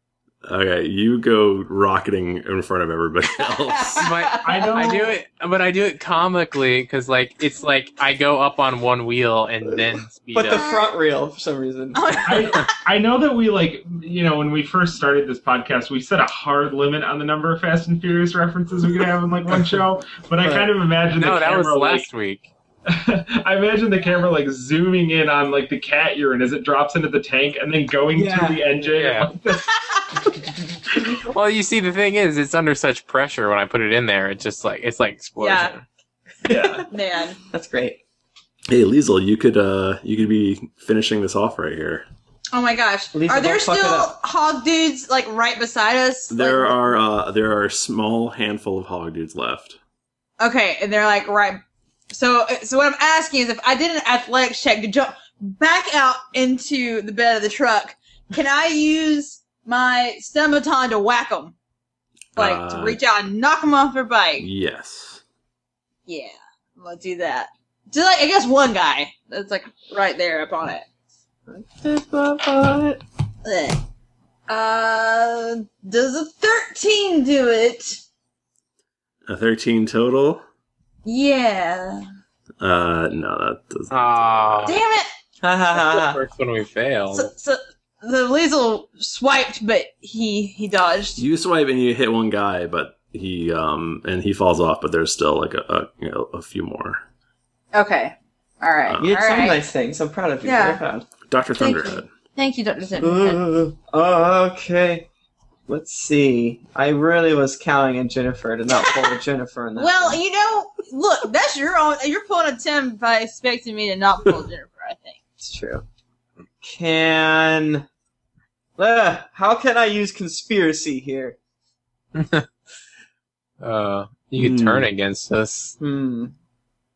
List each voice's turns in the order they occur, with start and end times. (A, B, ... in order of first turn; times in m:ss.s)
0:00.4-0:04.1 A
0:04.0-0:10.7 B
0:04.0-0:04.6 C
0:04.4-0:05.2 D
0:10.3-0:12.2 C
0:10.5-0:10.9 E
0:11.9-0:12.7 E
0:12.2-0:22.1 D
0:20.4-0:20.7 C
0:21.2-0:22.5 B
0:22.9-0:29.8 D
0:28.1-0:28.7 C
0:29.0-0:29.3 B
0:31.2-0:35.8 B
0:35.4-0:35.7 E
0:36.5-0:36.8 C
0:36.5-0:36.9 D
0:36.9-0:37.4 E
0:37.5-0:38.0 C
0:38.7-0:42.1 A
0:42.5-0:46.8 E
0:43.1-0:44.1 C
0:46.3-0:49.8 A
0:50.4-1:01.6 E
1:02.4-1:03.0 A
1:02.4-1:04.5 E
1:04.4-1:05.2 A
1:06.1-1:10.9 E
1:11.5-1:13.0 C
1:13.4-1:13.8 E
1:14.5-1:18.0 E
1:19.3-1:20.4 A
1:21.0-1:22.0 E
1:22.6-1:24.8 A
1:23.9-1:24.8 B
1:24.6-1:25.1 E
1:25.4-1:26.2 C
1:25.7-1:27.3 B
1:27.1-1:31.2 E
1:31.2-1:37.0 A
1:37.7-1:39.6 E
1:38.9-1:39.2 A
1:39.0-1:41.1 C
1:40.4-1:40.8 E
1:41.3-1:42.1 A
1:41.6-1:43.4 E
1:43.0-1:45.1 C
1:45.7-1:50.2 C
1:49.8-1:55.2 E
1:55.4-1:55.8 C
1:56.6-1:57.9 C
1:58.8-2:01.4 C
2:02.2-2:02.5 B
2:03.6-2:05.8 B
2:04.4-2:04.9 A
2:05.8-2:06.3 C